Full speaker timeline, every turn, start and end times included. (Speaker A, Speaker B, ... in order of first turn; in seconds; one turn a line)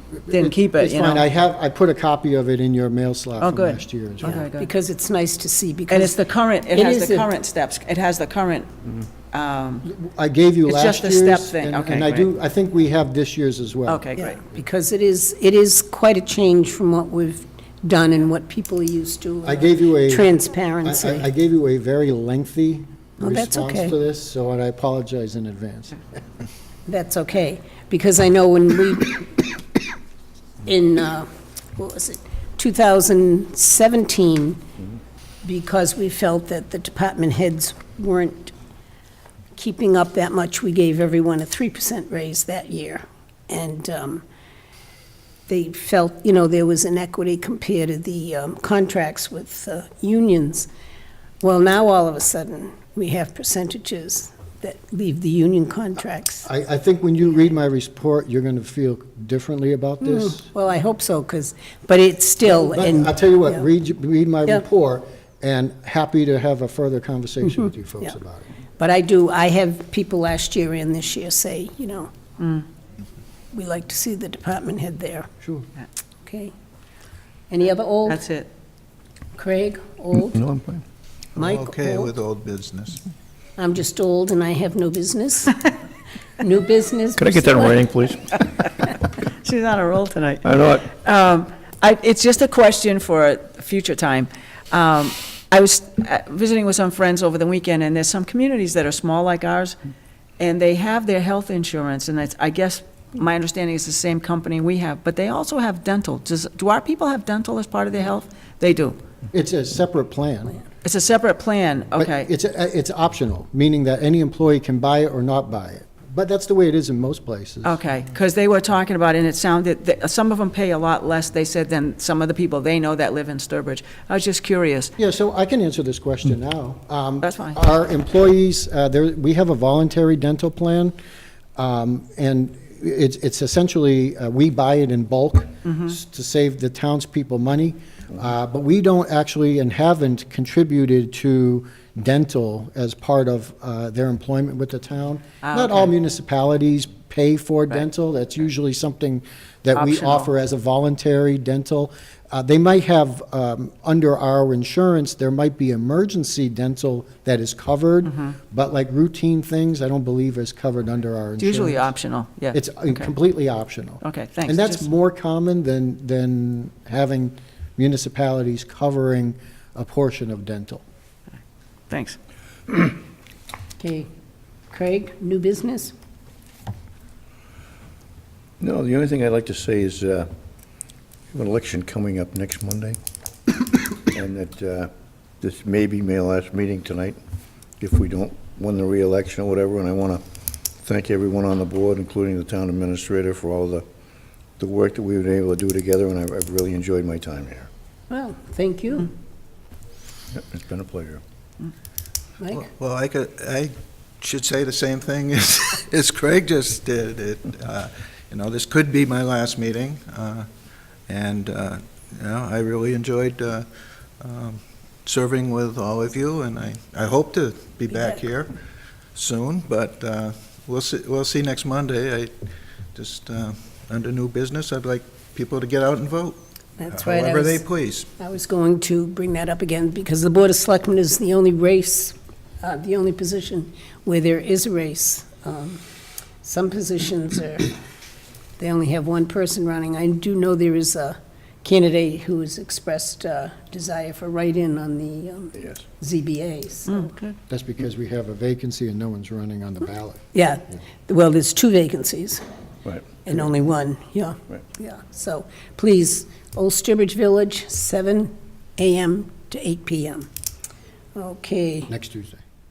Speaker A: 0.2-4.5
Speaker B: 0.3-1.2
Speaker B: 3.4-4.7
Speaker C: 4.5-7.3
Speaker B: 5.9-9.8
Speaker A: 9.8-14.1
Speaker B: 10.7-12.3
Speaker B: 13.9-14.4
Speaker C: 14.2-21.3
Speaker A: 19.4-20.3
Speaker A: 20.8-26.0
Speaker C: 23.2-24.0
Speaker C: 26.9-29.6
Speaker C: 30.6-34.7
Speaker C: 35.4-38.5
Speaker C: 39.5-44.2
Speaker C: 45.5-50.7
Speaker C: 51.4-56.5
Speaker A: 56.5-60.5
Speaker C: 60.0-63.6
Speaker A: 62.5-68.5
Speaker C: 68.8-72.1
Speaker C: 73.5-75.3
Speaker C: 76.2-76.5
Speaker C: 77.5-78.2
Speaker B: 78.1-78.5
Speaker C: 79.3-80.5
Speaker D: 80.3-80.8
Speaker C: 81.4-82.1
Speaker E: 81.4-83.0
Speaker C: 83.6-85.7
Speaker C: 86.4-87.9
Speaker D: 87.2-88.4
Speaker B: 88.6-99.8
Speaker D: 90.4-90.9
Speaker B: 100.4-109.0
Speaker A: 109.3-110.6
Speaker B: 110.8-112.3
Speaker A: 112.0-117.8
Speaker B: 117.6-124.9
Speaker A: 125.0-130.9
Speaker B: 127.2-127.6
Speaker A: 131.6-161.9
Speaker B: 135.7-135.9
Speaker B: 145.4-145.9
Speaker B: 149.7-150.3
Speaker B: 161.4-163.1
Speaker A: 162.5-170.8
Speaker B: 164.0-164.9
Speaker B: 171.9-172.2
Speaker C: 173.8-174.1
Speaker C: 174.7-175.9
Speaker D: 178.6-180.3
Speaker D: 181.3-183.0
Speaker D: 184.1-187.2
Speaker D: 187.8-193.8
Speaker D: 194.6-197.7
Speaker C: 198.1-199.1
Speaker D: 200.3-201.2
Speaker E: 202.5-210.5
Speaker E: 211.1-213.7
Speaker E: 214.2-218.5
Speaker C: 217.9-218.2
Speaker E: 219.2-222.3
Speaker E: 222.9-228.1
Speaker C: 226.8-227.7
Speaker C: 228.2-235.8
Speaker C: 236.4-237.7
Speaker C: 238.6-247.1
Speaker B: 246.9-247.3
Speaker A: 247.5-250.2
Speaker C: 250.3-252.4
Speaker D: 252.8-253.4
Speaker C: 253.1-260.3
Speaker C: 261.1-261.9
Speaker A: 261.9-262.4